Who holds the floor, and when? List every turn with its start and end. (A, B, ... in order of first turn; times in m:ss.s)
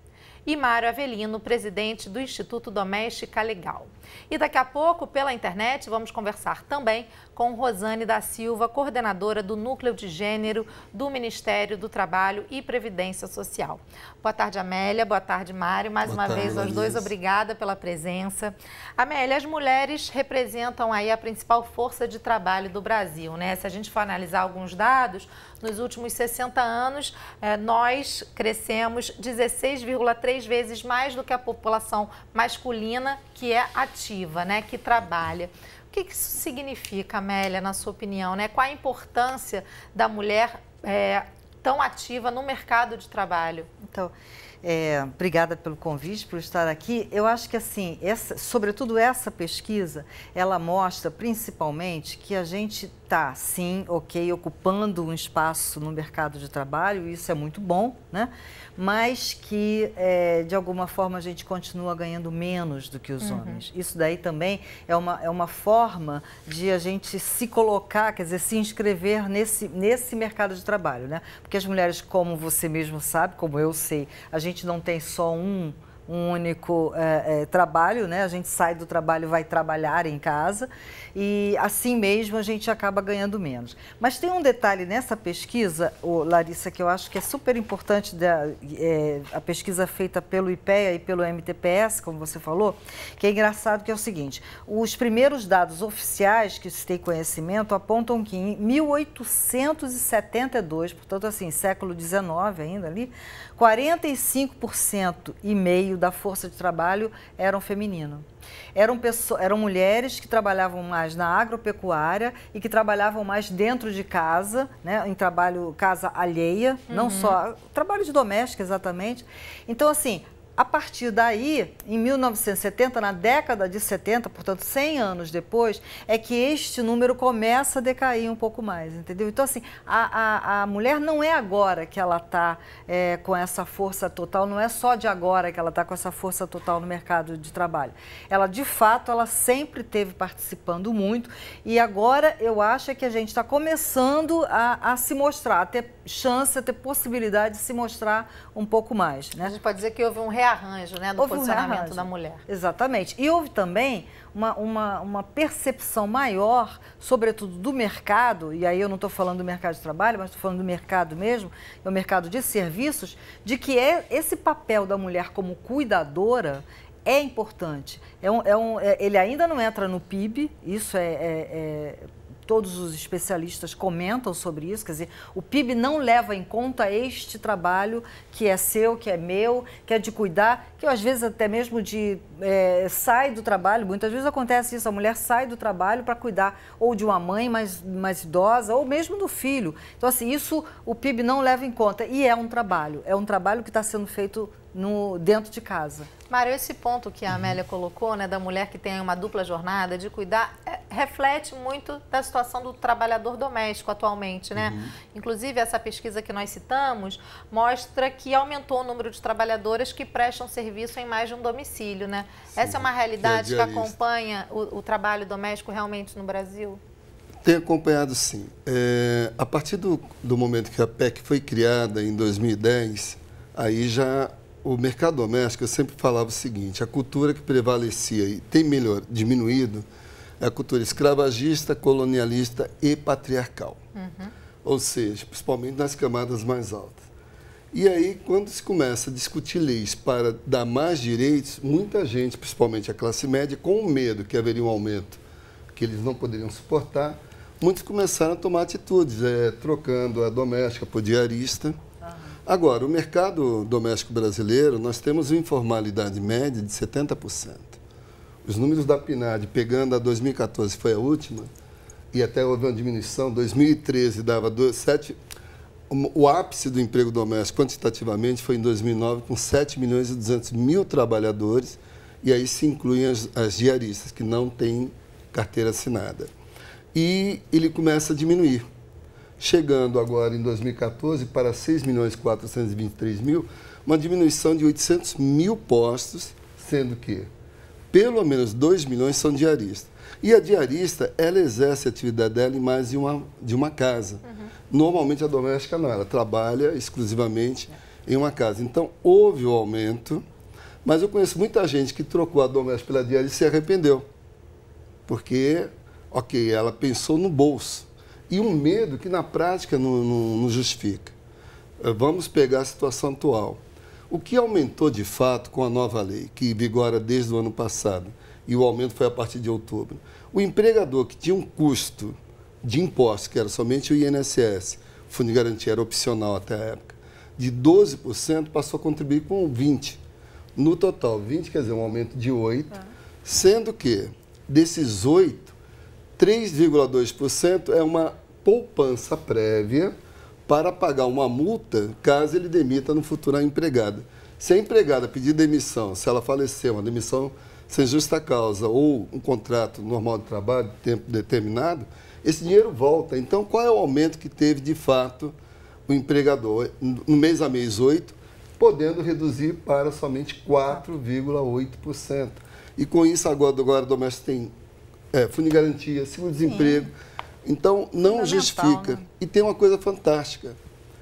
0:00.4-0:43.7 A
0:16.0-0:17.1 B
0:43.8-2:29.5 C
1:03.2-1:03.6 A
1:56.9-1:57.4 A
2:29.4-2:32.4 A
2:31.2-3:16.1 C
3:16.3-3:36.8 A
3:24.5-3:25.0 B
3:32.6-3:33.9 B
3:37.4-3:49.8 B
3:50.4-3:53.8 B
3:54.0-3:54.3 A
3:54.6-3:57.0 B
3:57.7-4:05.2 B
4:05.7-4:11.8 B
4:12.0-4:12.4 C
4:12.5-4:17.8 B
4:18.4-4:21.5 B
4:22.1-4:25.2 B
4:25.9-4:36.3 B
4:36.9-4:38.6 B
4:39.4-4:47.3 B
4:47.9-5:00.2 B
4:54.2-4:54.5 A
5:00.8-5:04.0 B
5:05.1-5:11.1 B
5:11.8-5:30.0 B
5:30.6-5:35.5 B
5:36.2-5:39.9 B
5:40.5-5:55.4 B
5:55.9-6:04.5 B
6:05.1-6:06.9 B
6:06.4-6:06.9 C
6:07.4-6:10.6 B
6:08.0-6:09.0 C